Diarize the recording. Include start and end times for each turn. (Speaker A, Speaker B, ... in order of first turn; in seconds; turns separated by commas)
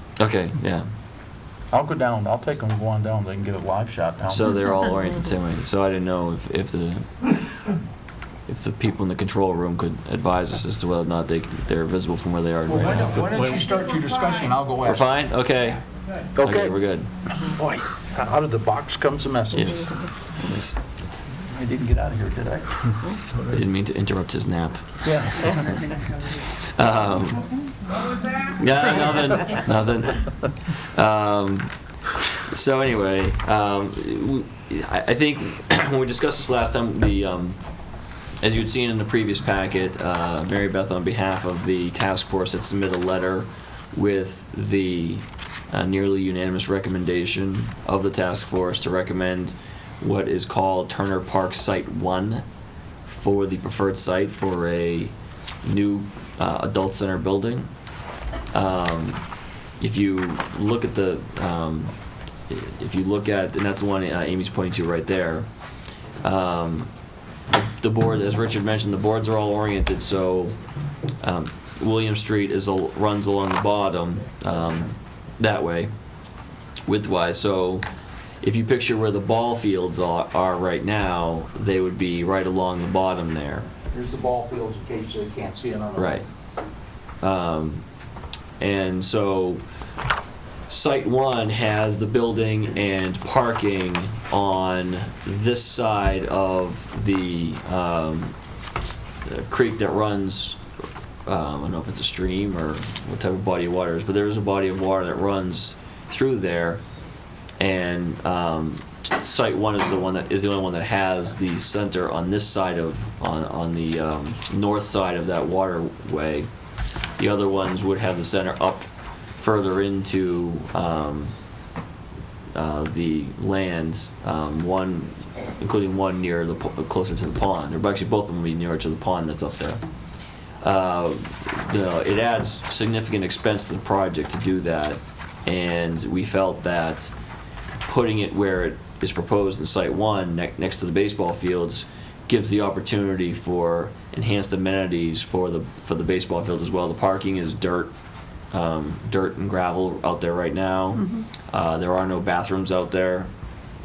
Speaker A: 0.2-0.9, Speaker B: 1.7-4.5, Speaker A: 4.3-7.2, Speaker A: 8.5-13.6, Speaker B: 12.7-15.0, Speaker A: 14.8-15.8, Speaker B: 16.4-16.7, Speaker A: 16.4-17.1, Speaker B: 17.5-19.9, Speaker A: 19.5-20.8, Speaker B: 21.4-22.8, Speaker A: 23.4-25.9, Speaker B: 25.0-25.5, Speaker A: 26.7-27.5, Speaker A: 28.6-31.7, Speaker A: 32.5-37.6, Speaker A: 38.4-52.5, Speaker A: 53.0-55.1, Speaker A: 55.6-57.7, Speaker A: 58.5-59.2, Speaker A: 59.8-61.9, Speaker A: 62.5-65.5, Speaker A: 66.2-66.9, Speaker A: 67.5-70.6, Speaker A: 71.2-75.9, Speaker A: 76.8-77.9, Speaker A: 78.4-83.7, Speaker B: 83.9-86.2, Speaker A: 86.0-86.2, Speaker A: 87.2-87.8, Speaker A: 88.6-89.6, Speaker A: 90.7-98.3, Speaker A: 99.2-100.6, Speaker A: 101.2-106.8, Speaker A: 107.6-116.5, Speaker A: 117.2-121.3, Speaker A: 122.5-129.8, Speaker A: 130.6-137.1, Speaker A: 137.8-147.9, Speaker A: 148.5-153.3